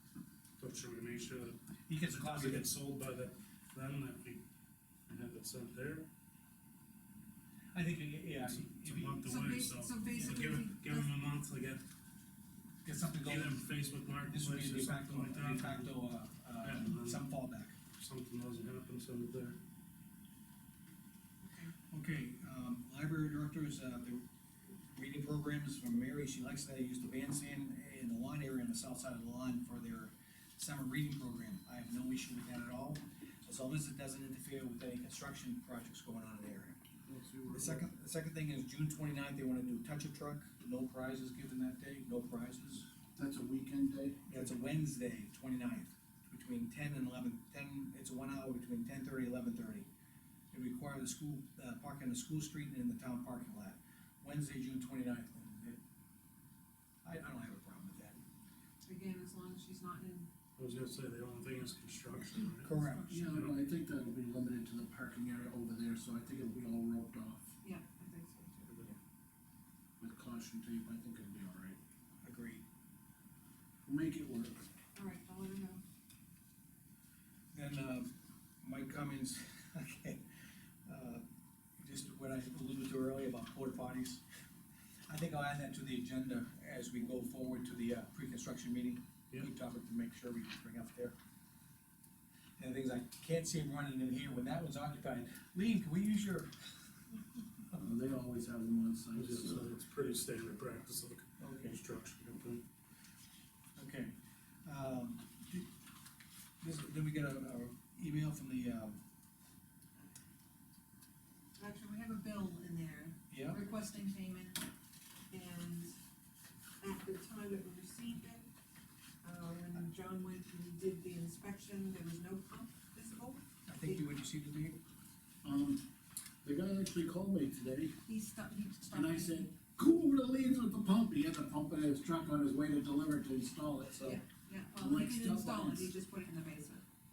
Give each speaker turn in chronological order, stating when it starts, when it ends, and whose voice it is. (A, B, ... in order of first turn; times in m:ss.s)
0:00.6-0:04.4 A
0:01.9-0:02.7 B
0:05.1-0:06.1 A
0:07.7-0:09.3 B
0:08.4-0:11.8 A
0:09.2-0:11.1 C
0:12.8-0:13.6 B
0:13.2-0:15.9 A
0:14.2-0:17.8 B
0:16.6-0:17.2 A
0:18.0-0:19.6 A
0:21.4-0:21.7 C
0:21.9-0:36.8 B
0:37.0-0:37.9 D
0:37.5-0:42.8 B
0:43.2-0:44.4 D
0:44.3-0:49.9 B
0:50.5-0:55.8 B
0:57.0-0:58.2 B
0:58.8-1:00.3 C
1:00.6-1:02.7 A
1:02.6-1:03.1 B
1:02.6-1:03.4 C
1:03.1-1:07.5 D
1:03.3-1:03.6 A
1:07.6-1:08.7 C
1:10.0-1:11.8 D
1:12.2-1:12.6 B
1:13.8-1:14.6 D
1:14.9-1:15.8 C
1:17.5-1:20.2 B
1:20.8-1:21.2 B
1:21.8-1:24.2 B
1:25.1-1:31.1 B
1:32.6-1:36.5 B
1:37.7-1:39.7 D
1:39.1-1:42.6 A
1:41.4-1:41.8 B
1:43.8-1:45.7 B
1:46.6-1:49.0 B
1:51.6-1:54.7 C
1:53.3-1:53.6 B
1:55.3-1:55.9 C
1:56.8-1:58.5 C
1:59.2-2:04.1 C
2:03.7-2:04.8 B
2:05.4-2:05.8 D
2:06.4-2:08.0 D
2:08.0-2:09.5 C
2:08.9-2:14.2 D
2:14.0-2:16.8 C
2:14.8-2:15.9 D